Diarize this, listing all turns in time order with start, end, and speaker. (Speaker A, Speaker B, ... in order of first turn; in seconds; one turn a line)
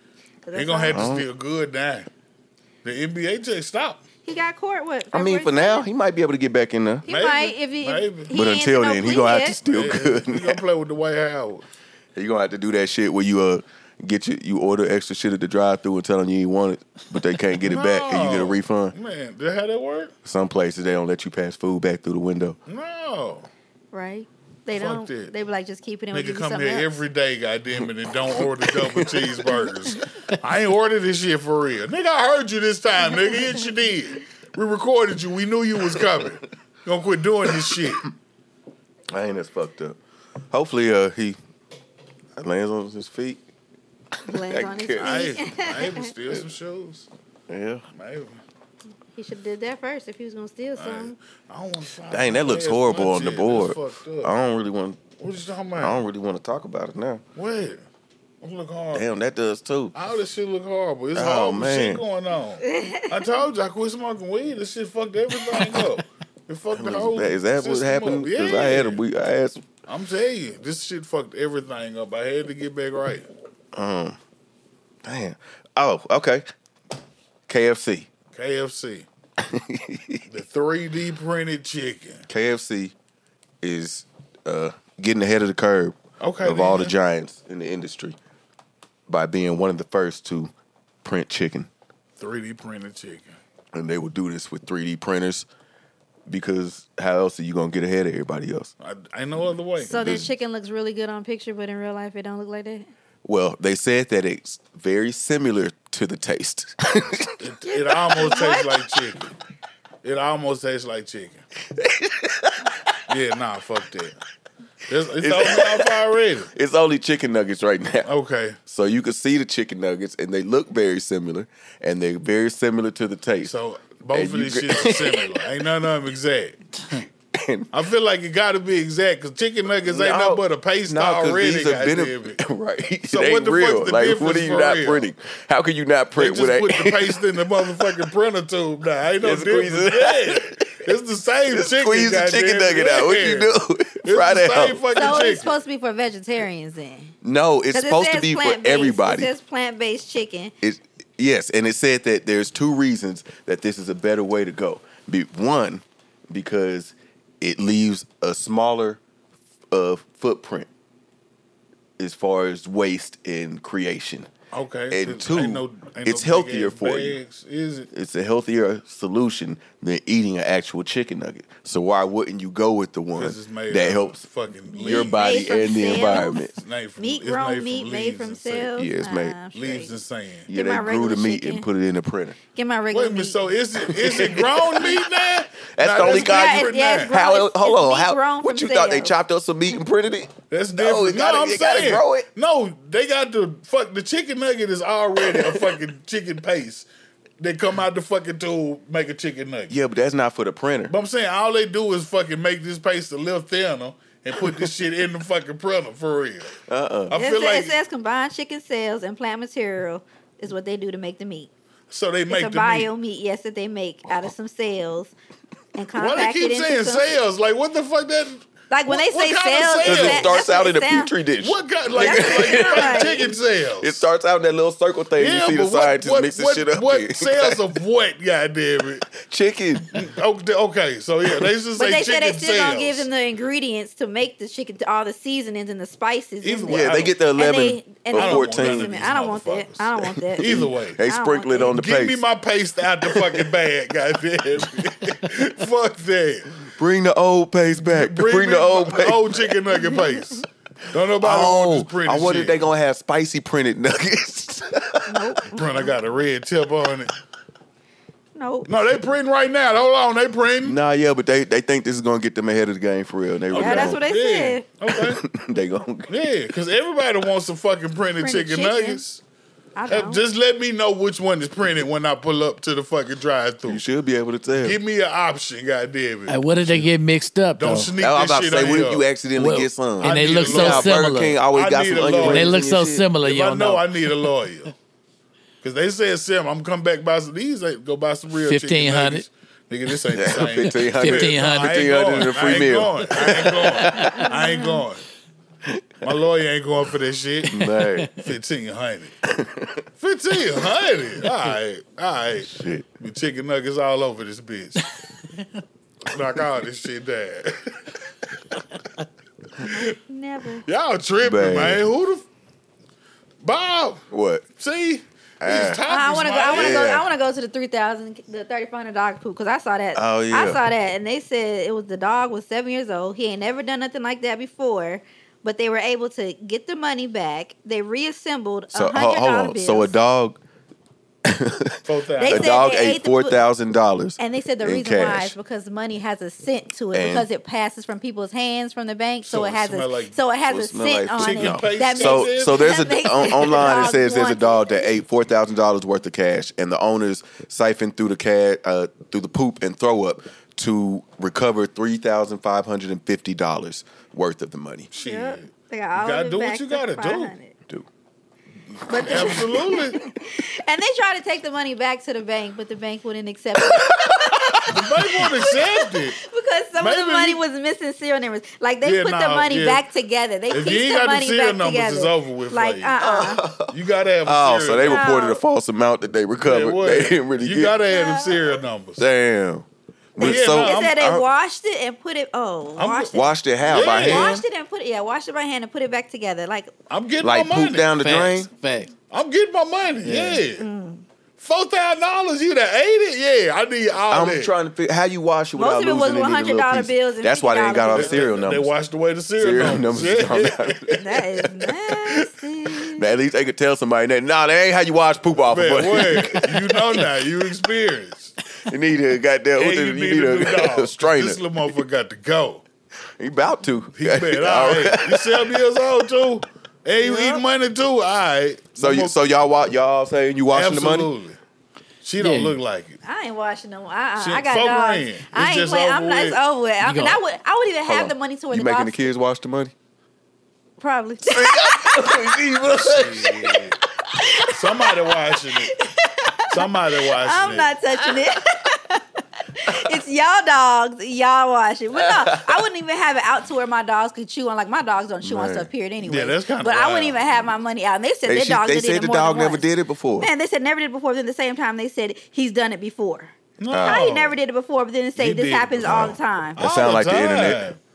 Speaker A: 0.4-1.1
Speaker B: 0.5-2.1
Speaker C: 0.9-1.2
Speaker B: 2.8-4.0
Speaker A: 4.2-5.8
Speaker C: 5.1-7.0
Speaker A: 7.0-9.6
Speaker B: 7.1-8.3
Speaker C: 8.3-10.6
Speaker B: 9.6-11.6
Speaker C: 12.1-18.9
Speaker B: 17.6-20.1
Speaker C: 20.2-22.6
Speaker B: 22.7-23.5
Speaker A: 23.9-26.9
Speaker B: 24.7-25.3
Speaker B: 26.1-38.1
Speaker C: 28.2-29.9
Speaker C: 36.0-36.2
Speaker C: 37.5-37.8
Speaker C: 39.1-40.0
Speaker C: 40.5-41.4
Speaker C: 42.4-43.4
Speaker C: 44.2-45.3
Speaker A: 44.3-46.1
Speaker B: 45.0-47.1
Speaker C: 47.5-47.8
Speaker B: 47.9-48.4
Speaker A: 49.1-51.1
Speaker B: 50.8-54.3
Speaker C: 52.1-55.0
Speaker B: 55.2-56.0
Speaker C: 55.8-57.2
Speaker B: 57.3-57.8
Speaker B: 58.4-59.1
Speaker C: 58.9-59.9
Speaker B: 59.9-69.0
Speaker C: 61.1-62.0
Speaker A: 62.6-63.2
Speaker C: 66.7-69.6
Speaker B: 69.9-73.3
Speaker C: 73.7-74.2
Speaker C: 75.0-76.5
Speaker C: 77.5-78.1
Speaker B: 78.3-79.1
Speaker C: 79.4-80.2
Speaker B: 80.3-82.3
Speaker C: 82.3-82.9
Speaker C: 83.6-88.2
Speaker B: 86.2-86.9
Speaker C: 89.1-90.5
Speaker C: 91.0-91.7
Speaker B: 92.2-93.3
Speaker C: 93.7-95.5
Speaker C: 96.3-98.7
Speaker B: 98.8-100.2
Speaker A: 99.8-102.9
Speaker C: 100.0-100.3
Speaker C: 103.2-107.4
Speaker B: 107.4-109.3
Speaker A: 107.7-109.0
Speaker B: 110.0-111.4
Speaker C: 111.7-112.9
Speaker B: 113.1-114.2
Speaker B: 114.9-116.5
Speaker C: 115.2-116.0
Speaker C: 116.5-118.1
Speaker B: 118.0-118.6
Speaker C: 118.7-123.5
Speaker B: 123.4-127.1
Speaker C: 124.1-125.4
Speaker C: 127.3-127.7
Speaker B: 127.7-132.4
Speaker C: 129.8-138.1
Speaker B: 133.1-135.1
Speaker B: 136.2-145.5
Speaker C: 139.2-140.8
Speaker C: 141.5-145.4
Speaker A: 144.9-147.1
Speaker C: 147.2-149.3
Speaker A: 147.7-150.5
Speaker C: 150.6-159.0
Speaker C: 159.7-160.7
Speaker C: 162.0-164.3
Speaker B: 164.5-167.9
Speaker C: 164.9-167.2
Speaker C: 167.9-174.2
Speaker B: 173.2-175.5
Speaker C: 174.7-176.5
Speaker A: 174.8-179.9
Speaker B: 176.5-178.7
Speaker C: 178.7-179.3
Speaker B: 179.5-180.5
Speaker C: 180.5-182.4
Speaker A: 180.5-181.6
Speaker A: 182.5-183.4
Speaker B: 182.9-187.1
Speaker C: 183.8-185.1
Speaker C: 185.7-192.3
Speaker A: 186.0-189.1
Speaker B: 190.5-196.9
Speaker C: 195.2-195.7
Speaker B: 197.4-199.7
Speaker C: 199.7-200.9
Speaker B: 200.9-206.5
Speaker C: 204.4-204.7
Speaker C: 206.7-207.1
Speaker B: 207.1-207.8
Speaker A: 207.1-211.5
Speaker B: 211.9-212.9
Speaker A: 212.3-215.1
Speaker A: 215.8-217.1
Speaker B: 215.9-220.4
Speaker A: 218.7-221.1
Speaker C: 219.8-227.6
Speaker B: 221.4-224.0
Speaker A: 222.0-223.3
Speaker B: 225.2-229.1
Speaker C: 229.1-230.0
Speaker B: 229.9-233.1
Speaker A: 231.8-241.7
Speaker B: 236.4-237.1
Speaker C: 236.7-239.0
Speaker B: 238.1-241.0
Speaker C: 240.3-242.2
Speaker B: 241.6-246.5
Speaker C: 243.1-243.4
Speaker C: 246.8-249.6
Speaker B: 247.8-252.6
Speaker C: 251.2-255.4
Speaker A: 255.1-255.9
Speaker B: 255.5-257.1
Speaker A: 258.3-258.7
Speaker B: 258.6-260.8
Speaker C: 260.6-264.0
Speaker B: 263.5-265.2
Speaker A: 263.5-264.6
Speaker C: 264.9-266.1
Speaker B: 266.1-269.2
Speaker A: 268.2-269.0
Speaker A: 269.7-270.2
Speaker B: 269.9-273.8
Speaker C: 273.7-274.8
Speaker B: 274.6-276.9
Speaker D: 276.3-277.9
Speaker B: 277.6-279.1
Speaker C: 277.9-283.1
Speaker D: 279.4-281.4
Speaker B: 280.0-281.0
Speaker B: 281.5-282.6
Speaker D: 282.2-284.2
Speaker B: 283.2-284.7
Speaker B: 285.6-295.0
Speaker D: 288.3-289.2
Speaker C: 290.1-294.3
Speaker D: 290.9-291.7
Speaker D: 293.8-294.3
Speaker A: 294.3-294.6
Speaker B: 296.0-297.6
Speaker C: 297.5-298.1
Speaker D: 297.5-298.1
Speaker B: 298.2-299.2
Speaker C: 299.2-299.8
Speaker B: 300.0-304.8
Speaker C: 302.4-302.9
Speaker B: 306.0-308.0
Speaker A: 309.6-310.6
Speaker B: 310.6-312.2
Speaker C: 311.2-311.8
Speaker B: 313.4-314.0
Speaker C: 314.1-314.4
Speaker B: 314.6-316.9
Speaker C: 315.4-315.8
Speaker A: 315.9-329.9
Speaker C: 316.5-317.1
Speaker C: 319.9-320.6
Speaker C: 328.7-330.4
Speaker C: 331.2-335.3
Speaker B: 331.8-332.7
Speaker A: 332.2-333.4
Speaker A: 334.2-344.9
Speaker C: 336.9-337.2
Speaker B: 339.2-340.1
Speaker C: 340.5-354.9
Speaker B: 341.2-342.8
Speaker B: 354.9-357.3
Speaker A: 355.0-357.5
Speaker B: 358.8-360.0
Speaker A: 358.9-373.4
Speaker C: 363.6-364.8
Speaker B: 364.6-366.2
Speaker B: 366.8-367.4
Speaker B: 368.8-369.8
Speaker B: 370.5-372.9
Speaker C: 373.0-377.8
Speaker B: 373.7-375.1
Speaker A: 374.9-375.4
Speaker B: 376.4-379.1
Speaker A: 377.9-378.5
Speaker C: 379.0-381.2
Speaker B: 380.2-380.9
Speaker A: 380.2-386.7
Speaker B: 382.8-384.4
Speaker C: 383.1-384.4
Speaker B: 386.9-387.9
Speaker C: 387.2-388.5
Speaker D: 388.0-388.9
Speaker B: 389.1-390.6
Speaker D: 390.0-390.4
Speaker A: 390.6-391.0
Speaker B: 391.4-394.5
Speaker C: 394.1-398.7
Speaker A: 395.6-398.2
Speaker B: 397.9-401.2
Speaker C: 399.4-401.0
Speaker A: 401.0-403.0
Speaker C: 402.8-407.1
Speaker B: 405.5-408.4
Speaker C: 408.6-411.6
Speaker B: 409.6-412.6
Speaker C: 413.2-415.5
Speaker B: 413.9-419.2
Speaker A: 417.1-417.4
Speaker C: 418.8-421.1
Speaker B: 420.5-421.4
Speaker B: 422.0-423.0
Speaker D: 422.2-422.6
Speaker A: 423.0-429.1
Speaker B: 424.2-426.4
Speaker D: 426.8-427.2
Speaker C: 427.9-429.7
Speaker A: 430.8-432.1
Speaker C: 431.2-433.7
Speaker B: 432.2-433.8
Speaker A: 434.1-434.9
Speaker B: 434.5-435.7
Speaker A: 435.5-456.6
Speaker B: 436.5-437.7
Speaker C: 442.0-442.6
Speaker C: 445.2-445.7
Speaker B: 446.0-447.2
Speaker C: 448.3-450.3
Speaker B: 453.6-454.4
Speaker C: 453.7-454.0
Speaker B: 455.2-457.8
Speaker C: 455.8-457.6